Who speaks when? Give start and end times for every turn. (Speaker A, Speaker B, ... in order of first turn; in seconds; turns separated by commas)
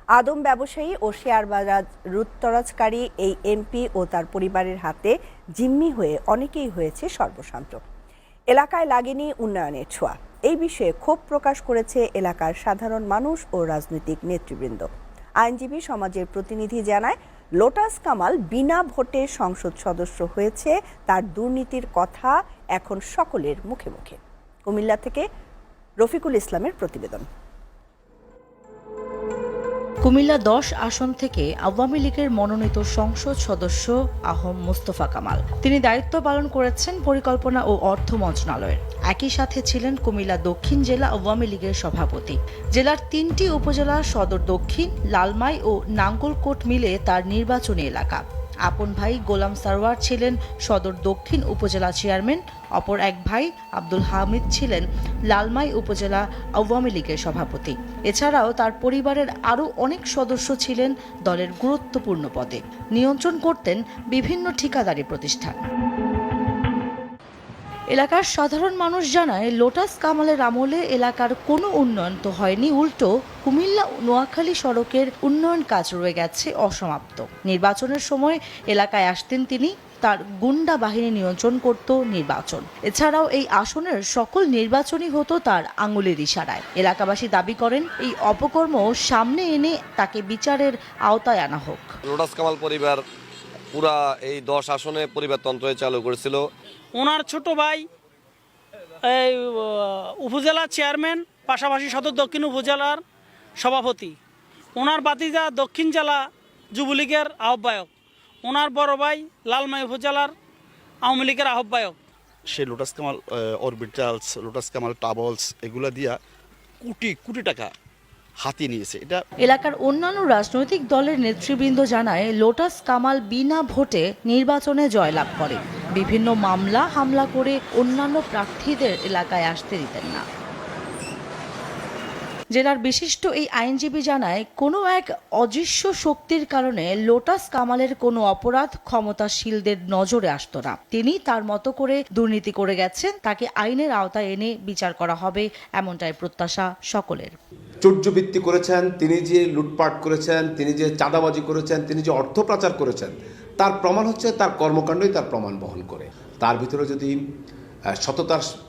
Speaker A: 0.1-7.8, Speaker A: 8.5-14.9, Speaker A: 15.4-25.3, Speaker A: 26.0-27.3, Speaker B: 30.0-65.7, Speaker B: 67.9-92.0, Speaker C: 92.1-93.0, Speaker C: 93.7-96.5, Speaker D: 97.0-97.9, Speaker D: 99.0-103.0, Speaker D: 103.6-104.2, Speaker D: 104.8-107.9, Speaker D: 108.4-110.3, Speaker D: 111.0-112.0, Speaker E: 112.5-116.2, Speaker E: 116.8-117.7, Speaker E: 118.4-119.2, Speaker B: 119.4-130.2, Speaker B: 132.5-147.4, Speaker F: 147.8-157.2, Speaker F: 158.0-158.5